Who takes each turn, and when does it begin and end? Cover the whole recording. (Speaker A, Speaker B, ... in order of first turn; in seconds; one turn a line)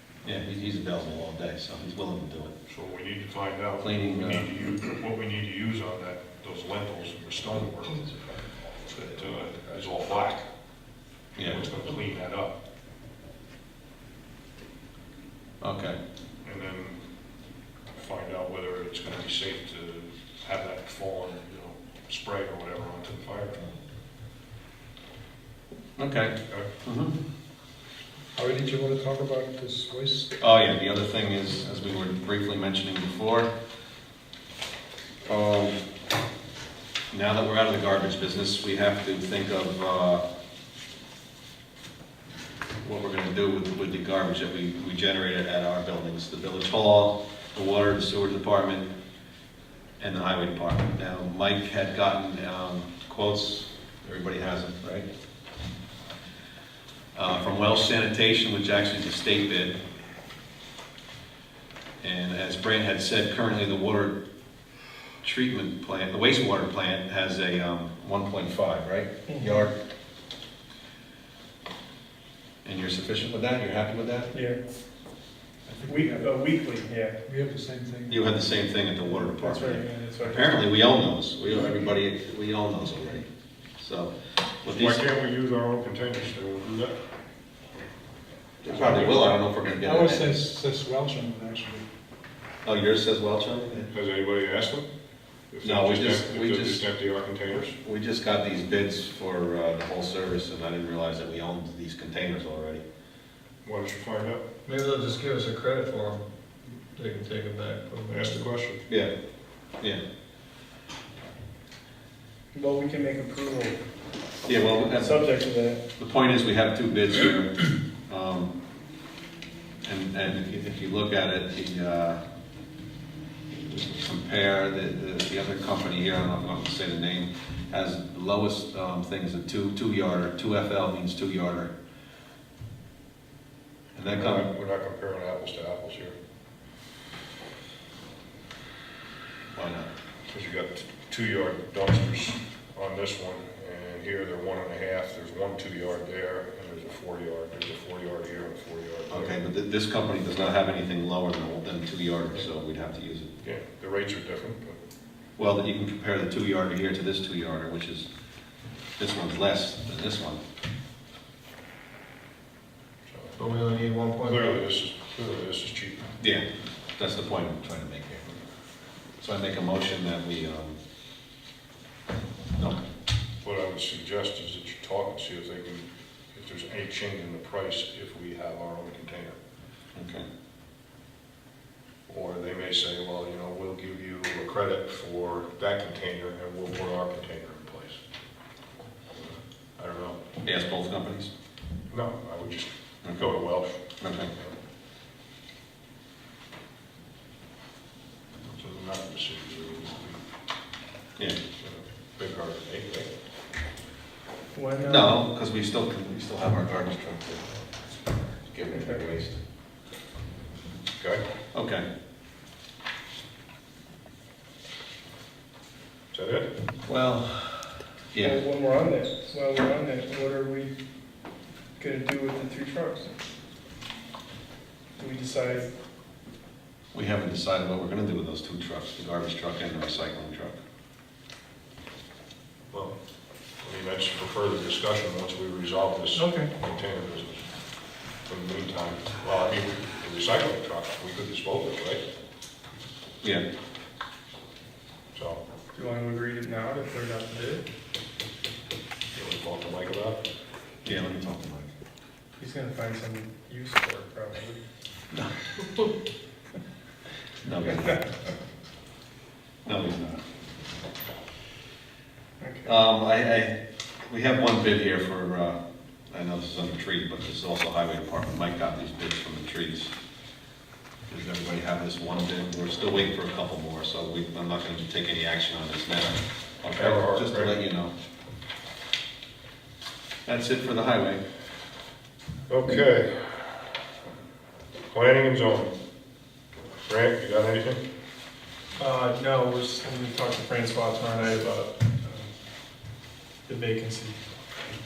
Speaker A: 0.2-2.5
Speaker B: 2.7-8.2
Speaker A: 3.8-4.5
Speaker B: 8.9-10.4
Speaker A: 11.3-11.6
Speaker B: 11.4-12.6
Speaker A: 15.6-16.0
Speaker B: 16.4-17.0
Speaker B: 17.9-23.7
Speaker A: 26.0-27.1
Speaker C: 28.3-30.4
Speaker A: 30.4-33.5
Speaker A: 35.2-35.8
Speaker A: 37.1-40.2
Speaker A: 42.8-48.9
Speaker A: 50.0-55.1
Speaker A: 57.1-59.8
Speaker A: 62.0-64.2
Speaker A: 65.2-69.8
Speaker D: 69.3-69.7
Speaker A: 72.6-74.3
Speaker D: 74.3-74.6
Speaker C: 75.7-76.3
Speaker D: 75.8-77.2
Speaker C: 77.2-78.2
Speaker A: 78.1-83.2
Speaker D: 79.3-80.6
Speaker A: 83.8-85.0
Speaker B: 84.7-86.9
Speaker A: 88.6-90.4
Speaker C: 88.7-89.1
Speaker C: 89.8-91.8
Speaker A: 92.6-93.9
Speaker B: 93.9-94.9
Speaker B: 95.5-97.8
Speaker A: 95.6-96.8
Speaker A: 97.8-102.8
Speaker B: 103.6-104.4
Speaker E: 104.7-106.2
Speaker E: 107.0-108.5
Speaker B: 108.1-108.8
Speaker D: 112.5-113.8
Speaker A: 114.4-115.3
Speaker D: 114.8-115.8
Speaker A: 116.0-118.5
Speaker A: 119.8-122.2
Speaker A: 123.5-131.7
Speaker A: 133.9-134.5
Speaker B: 134.2-136.1
Speaker A: 139.5-139.9
Speaker B: 140.3-149.4
Speaker A: 149.1-153.3
Speaker B: 153.4-154.8
Speaker A: 155.4-158.1
Speaker A: 159.0-160.4
Speaker B: 163.1-163.3
Speaker E: 163.4-164.6
Speaker B: 164.3-166.1
Speaker A: 166.2-168.2
Speaker A: 169.2-170.8
Speaker B: 173.4-179.3
Speaker A: 179.9-180.2
Speaker B: 182.1-188.0
Speaker B: 189.1-190.2
Speaker A: 190.4-191.3
Speaker B: 191.9-193.8
Speaker A: 193.0-193.3
Speaker A: 194.0-194.3
Speaker B: 198.4-200.2
Speaker B: 201.6-203.1
Speaker D: 204.5-205.2
Speaker A: 204.8-207.6
Speaker A: 208.5-209.4
Speaker D: 208.7-209.0
Speaker A: 211.5-211.8
Speaker B: 216.1-216.5
Speaker A: 216.8-218.4
Speaker D: 218.2-220.7
Speaker D: 221.8-223.1
Speaker D: 225.0-225.7
Speaker A: 226.9-230.6
Speaker B: 233.6-237.4
Speaker D: 236.1-236.5
Speaker B: 238.3-242.0
Speaker B: 245.1-245.4
Speaker D: 245.7-247.6
Speaker B: 249.1-250.2
Speaker A: 250.8-251.7
Speaker D: 252.4-254.6
Speaker A: 255.1-255.9
Speaker A: 257.4-258.0
Speaker A: 259.6-260.2
Speaker D: 262.4-262.7
Speaker A: 262.6-265.6
Speaker A: 266.1-269.9
Speaker A: 271.1-277.9
Speaker B: 276.7-277.5
Speaker A: 280.2-281.2
Speaker B: 282.5-283.4
Speaker B: 284.9-285.7
Speaker B: 286.9-287.8
Speaker D: 288.8-292.3
Speaker D: 293.5-294.2